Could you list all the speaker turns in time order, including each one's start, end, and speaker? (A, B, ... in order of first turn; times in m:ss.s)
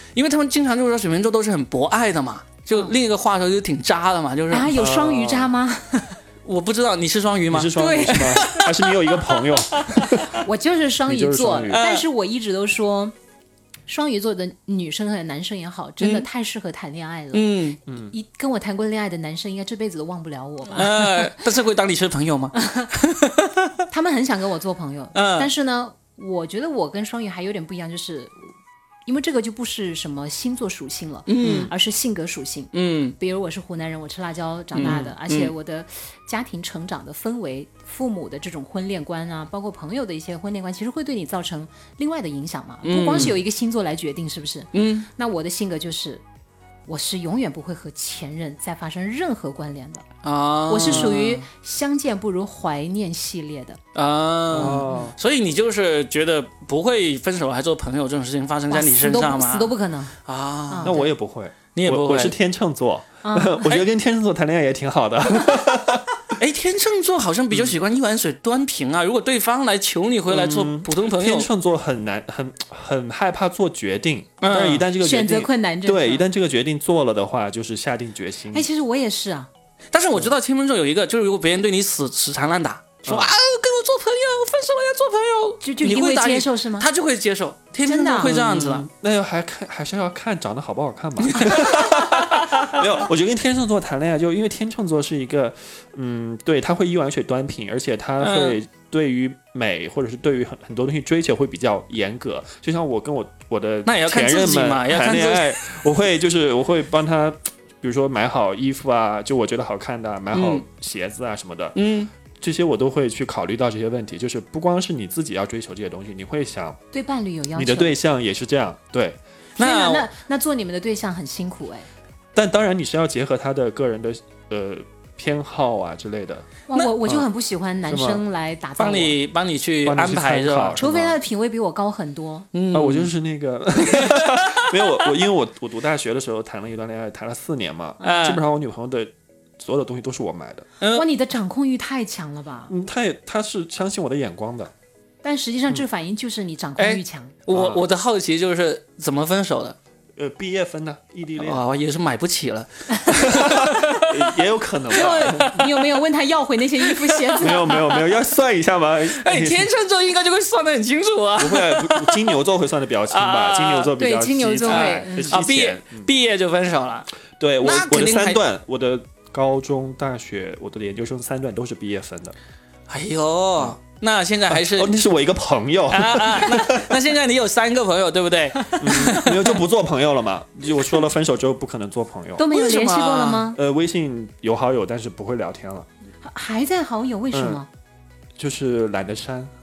0:00.2-0:04.7 A
0:04.5-0:06.2 B
0:04.7-0:05.5 C
0:06.4-0:08.7 A
0:07.5-0:10.4 C
0:07.8-0:08.7 B
0:09.8-0:10.3 A
0:10.3-0:13.1 B
0:11.1-0:11.8 C
0:11.7-0:12.0 A
0:13.9-0:21.3 B
0:16.0-0:16.3 A
0:17.3-0:17.8 A
0:17.9-0:18.1 C
0:20.7-0:23.7 A
0:22.6-0:22.9 B
0:23.9-0:28.5 B
0:25.1-0:25.5 A
0:29.1-0:46.2 B
0:31.3-0:31.7 A
0:31.4-0:31.7 C
0:32.7-0:33.2 A
0:34.8-0:35.5 A
0:34.8-0:35.1 C
0:42.8-0:43.4 A
0:44.7-0:45.1 A
0:46.9-0:50.1 B
0:50.2-0:51.4 A
0:50.7-0:53.8 B
0:54.0-0:59.8 A
0:54.5-0:55.2 C
0:54.6-0:55.1 B
0:58.7-1:00.2 B
1:00.3-1:01.0 A
1:00.7-1:01.1 B
1:00.8-1:06.1 C
1:01.7-1:02.4 A
1:03.2-1:03.6 B
1:06.4-1:11.5 A
1:07.5-1:07.8 C
1:10.3-1:18.7 C
1:14.4-1:14.9 A
1:15.0-1:16.3 B
1:18.5-1:19.5 B
1:19.9-1:28.9 A
1:23.0-1:23.3 C
1:25.6-1:26.9 B
1:27.8-1:28.4 B
1:28.2-1:51.8 C
1:31.3-1:32.8 A
1:38.2-1:38.6 A
1:43.9-1:45.6 A
1:50.3-1:50.6 A
1:51.8-1:52.1 A
1:52.4-1:56.8 C
1:56.9-1:58.0 B
1:57.6-1:59.2 C
1:59.6-2:00.1 A
1:59.6-2:01.9 B
2:02.3-2:07.3 C
2:06.7-2:09.2 B
2:07.9-2:08.2 C
2:08.8-2:10.8 A
2:09.8-2:11.2 C
2:10.8-2:12.5 B
2:12.5-2:13.1 A
2:12.7-2:20.7 C
2:13.9-2:15.1 A
2:18.0-2:18.4 A
2:20.8-2:21.1 A
2:20.9-2:22.7 B
2:22.7-2:24.7 C
2:25.2-2:27.4 B
2:26.8-2:29.8 A
2:27.5-2:27.8 C
2:30.2-2:31.6 C
2:31.4-2:34.4 A
2:32.9-2:33.2 B
2:33.1-2:35.6 C
2:34.9-2:37.8 B
2:34.9-2:35.8 A
2:37.0-2:38.0 A
2:37.4-2:39.7 C
2:39.2-2:42.3 A
2:41.4-2:46.1 C
2:43.1-2:43.9 A
2:44.0-2:45.4 B
2:44.7-2:47.1 A
2:47.4-2:52.4 C
2:47.6-2:48.4 A
2:52.9-2:54.9 A
2:54.5-2:56.9 C
2:55.9-2:59.6 A
2:58.8-3:02.6 C
3:02.4-3:03.6 B
3:02.5-3:03.5 A
3:03.5-3:05.9 C
3:06.2-3:07.7 B
3:07.3-3:07.6 C
3:08.4-3:09.5 C